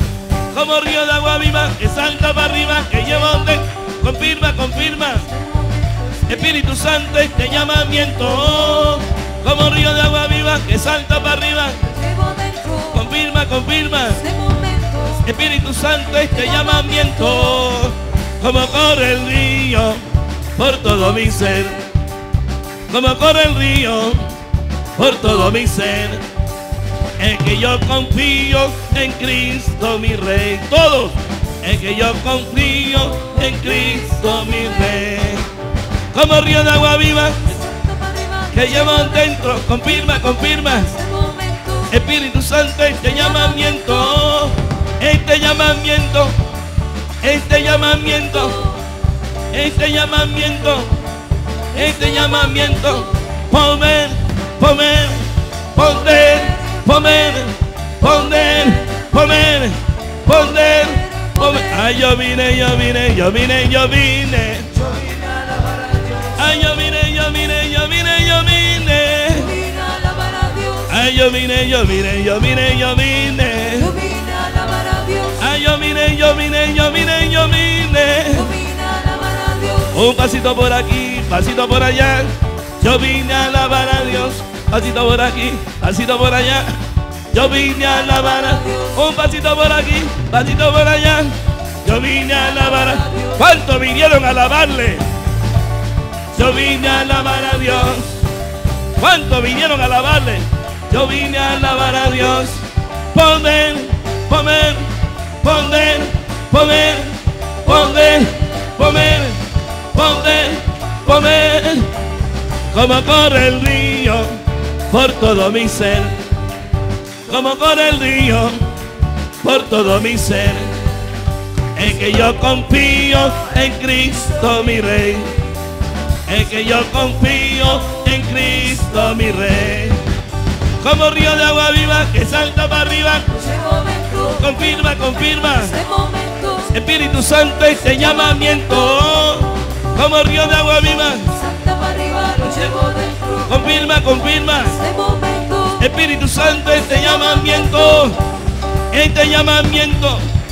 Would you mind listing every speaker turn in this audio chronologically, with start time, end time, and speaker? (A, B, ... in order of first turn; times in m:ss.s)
0:00.5-0:05.3 A
0:02.8-0:03.6 B
0:05.0-0:09.0 B
0:06.3-0:11.8 A
0:11.8-0:13.0 B
0:12.9-0:14.2 A
0:14.1-0:15.3 B
0:15.2-0:20.0 A
0:16.3-0:17.7 B
0:20.6-0:21.8 A
0:20.8-0:21.9 B
0:22.9-0:24.4 A
0:25.0-0:26.2 A
0:27.2-0:35.5 A
0:33.1-0:35.0 B
0:36.1-0:37.5 A
0:37.4-0:42.0 B
0:38.5-0:40.9 A
0:41.9-0:46.4 A
0:43.0-0:44.3 B
0:47.2-0:48.6 A
0:48.0-0:48.8 B
0:49.5-0:51.0 A
0:51.7-0:53.2 B
0:51.7-1:04.7 A
0:55.8-0:57.1 B
0:58.0-0:59.6 B
1:00.3-1:02.0 B
1:04.8-1:06.4 B
1:06.4-1:09.5 A
1:09.3-1:10.9 B
1:10.9-1:13.9 A
1:13.8-1:15.4 B
1:15.4-1:18.5 A
1:18.3-1:20.0 B
1:19.9-1:26.8 A
1:27.3-1:35.1 A
1:27.6-1:29.1 B
1:32.3-1:33.4 B
1:36.4-1:38.2 A
1:36.5-1:37.8 B
1:39.0-1:44.9 A
1:41.6-1:42.4 B
1:45.4-1:49.4 A
1:49.9-1:51.9 A
1:52.7-1:54.4 A
1:54.9-1:56.2 A
1:57.3-1:58.6 A
1:59.4-2:00.8 A
2:01.8-2:05.3 A
2:06.3-2:10.0 A
2:10.8-2:13.3 A
2:13.3-2:14.6 B
2:14.4-2:15.7 A
2:15.3-2:16.8 B
2:16.7-2:21.3 A
2:18.2-2:18.5 B
2:21.3-2:23.6 B
2:23.5-2:24.8 A
2:24.7-2:25.9 B
2:25.8-2:28.2 A
2:26.6-2:28.2 B
2:28.9-2:30.3 A